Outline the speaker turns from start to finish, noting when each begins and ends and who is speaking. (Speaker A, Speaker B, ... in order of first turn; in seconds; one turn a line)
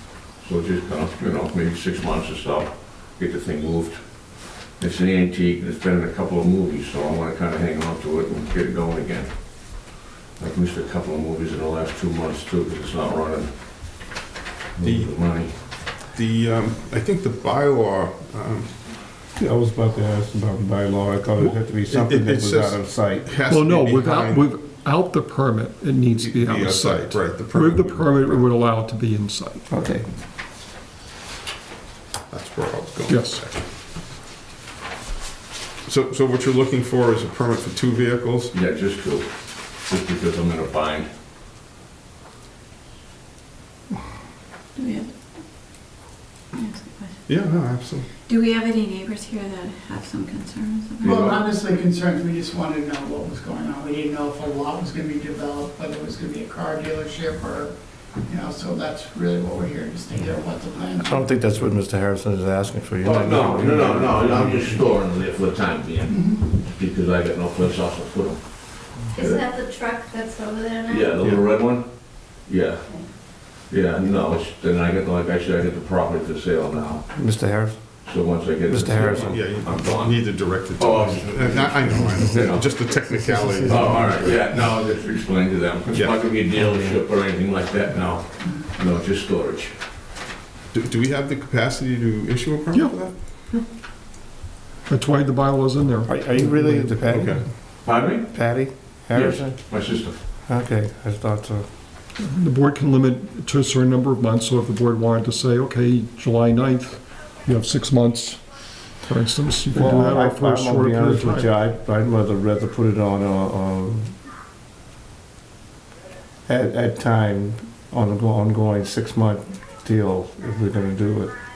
Speaker A: 0.1-13.5
Speaker A: 14.8-15.5
Speaker B: 14.8-15.1
Speaker B: 15.9-18.8
Speaker C: 19.4-23.3
Speaker B: 21.4-24.5
Speaker D: 23.5-29.9
Speaker B: 26.1-28.5
Speaker C: 29.7-30.1
Speaker B: 32.3-33.6
Speaker D: 33.1-33.4
Speaker B: 35.9-38.5
Speaker A: 38.5-41.1
Speaker E: 44.8-45.1
Speaker E: 46.5-47.1
Speaker B: 47.3-48.1
Speaker F: 48.3-48.5
Speaker E: 48.5-51.3
Speaker A: 51.0-51.5
Speaker G: 51.1-57.8
Speaker G: 58.3-61.2
Speaker C: 61.0-64.8
Speaker A: 63.0-69.6
Speaker G: 66.1-66.4
Speaker F: 69.2-71.1
Speaker A: 70.8-72.8
Speaker A: 73.5-77.0
Speaker C: 77.2-78.0
Speaker A: 78.0-82.8
Speaker C: 78.7-79.4
Speaker B: 79.0-84.4
Speaker C: 83.1-83.9
Speaker A: 83.7-89.8
Speaker B: 85.9-86.3
Speaker B: 90.7-93.2
Speaker D: 92.7-93.7
Speaker D: 94.9-97.0
Speaker C: 96.1-97.5
Speaker B: 97.0-97.5
Speaker A: 97.8-98.3
Speaker C: 98.3-99.6
Speaker A: 99.1-100.2
Speaker C: 100.5-101.7
Speaker D: 102.2-108.4
Speaker D: 109.0-111.5
Speaker C: 109.7-114.2
Speaker C: 116.5-121.3